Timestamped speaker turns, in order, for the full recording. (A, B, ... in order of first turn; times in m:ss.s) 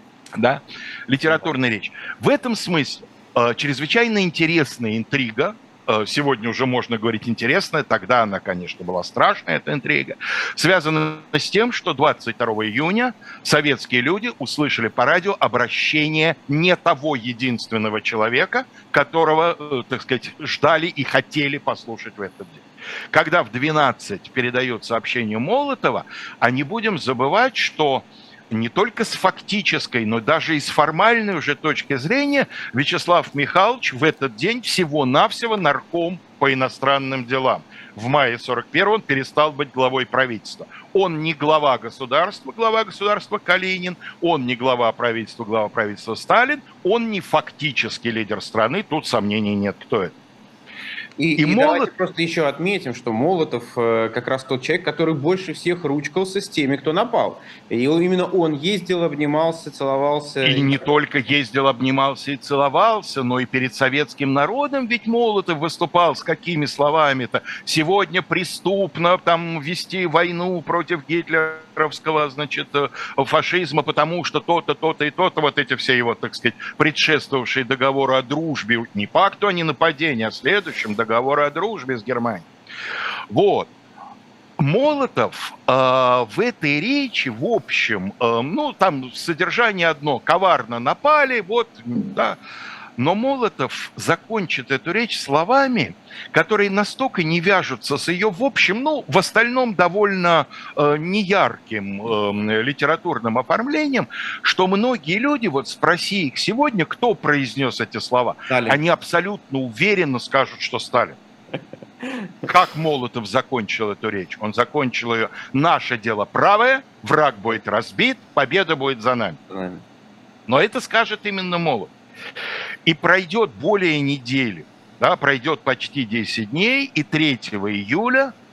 0:00.4-0:50.1 A
0:51.2-1:00.8 B
0:51.4-0:51.9 A
1:00.4-1:22.5 A
1:23.3-1:23.7 A
1:24.6-1:32.4 A
1:33.0-1:51.2 A
1:48.5-1:48.8 B
1:52.0-1:52.3 B
1:52.4-1:59.4 A
1:59.5-1:59.8 B
2:00.5-2:01.9 A
2:02.8-2:08.3 A